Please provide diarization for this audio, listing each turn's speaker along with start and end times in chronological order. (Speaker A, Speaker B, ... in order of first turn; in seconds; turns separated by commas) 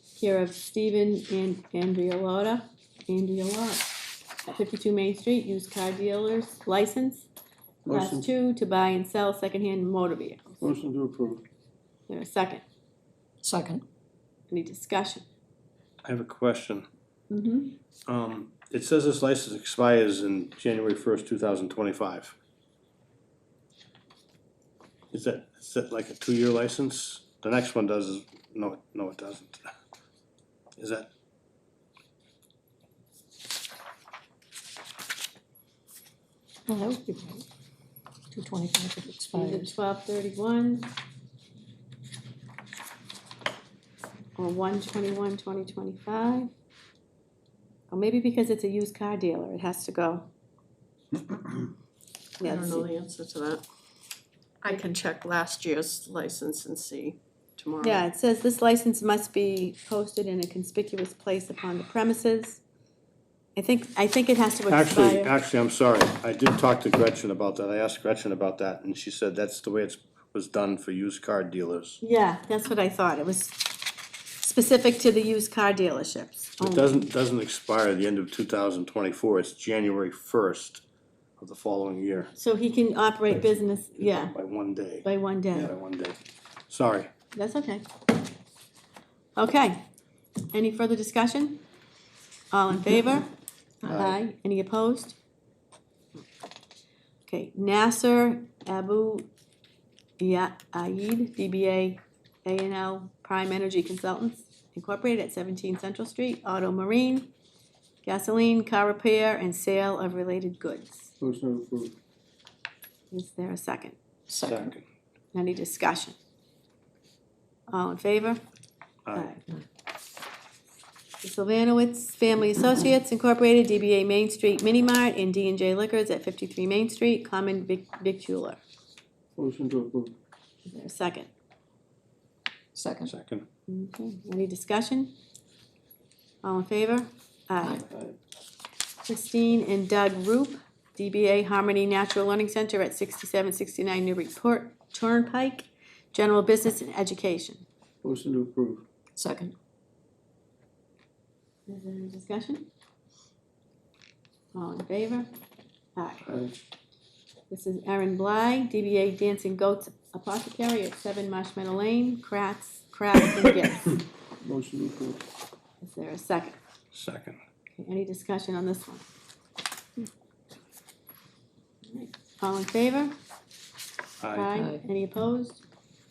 Speaker A: 0.2-7.3, Speaker B: 7.8-8.3, Speaker A: 7.9-10.5, Speaker B: 10.6-11.4, Speaker A: 12.1-12.6, Speaker C: 13.4-13.8, Speaker A: 14.5-15.2, Speaker D: 16.0-16.9, Speaker A: 17.3-17.7, Speaker D: 18.1-22.3, Speaker D: 25.1-29.7, Speaker D: 30.8-31.1, Speaker C: 36.7-37.4, Speaker C: 38.3-39.7, Speaker A: 39.3-40.9, Speaker A: 44.4-46.5, Speaker A: 47.9-50.3, Speaker A: 52.4-52.9, Speaker E: 52.4-53.6, Speaker E: 54.6-58.0, Speaker A: 57.8-62.6, Speaker A: 63.5-65.3, Speaker D: 64.7-72.0, Speaker A: 72.0-73.7, Speaker A: 74.4-77.1, Speaker D: 76.6-80.8, Speaker D: 81.4-82.3, Speaker A: 82.3-84.3, Speaker D: 84.0-87.1, Speaker A: 85.0-85.7, Speaker A: 87.3-87.9, Speaker A: 89.3-89.8, Speaker A: 90.5-91.6, Speaker A: 92.5-93.3, Speaker A: 93.8-95.2, Speaker D: 93.9-94.2, Speaker A: 97.3-99.3, Speaker A: 100.2-107.3, Speaker A: 108.0-111.1, Speaker B: 111.2-111.9, Speaker A: 113.1-114.0, Speaker C: 114.3-114.7, Speaker D: 114.4-114.8, Speaker A: 115.3-116.1, Speaker A: 117.7-118.4, Speaker D: 119.0-119.3, Speaker A: 119.1-119.5, Speaker A: 121.2-128.6, Speaker B: 129.3-130.1, Speaker A: 130.7-131.3, Speaker C: 132.7-133.1, Speaker D: 133.1-133.4, Speaker A: 133.7-135.1, Speaker A: 136.4-137.8, Speaker B: 137.9-138.2, Speaker A: 139.0-147.6, Speaker B: 148.0-148.8, Speaker C: 149.2-149.5, Speaker A: 151.7-152.7, Speaker A: 154.5-155.3, Speaker A: 155.9-156.3, Speaker A: 157.5-163.9, Speaker B: 164.4-165.2, Speaker A: 165.8-166.6, Speaker D: 166.9-167.4, Speaker A: 167.8-169.0, Speaker A: 171.9-173.2, Speaker D: 174.2-174.5, Speaker A: 174.3-175.6, Speaker C: 174.5-174.8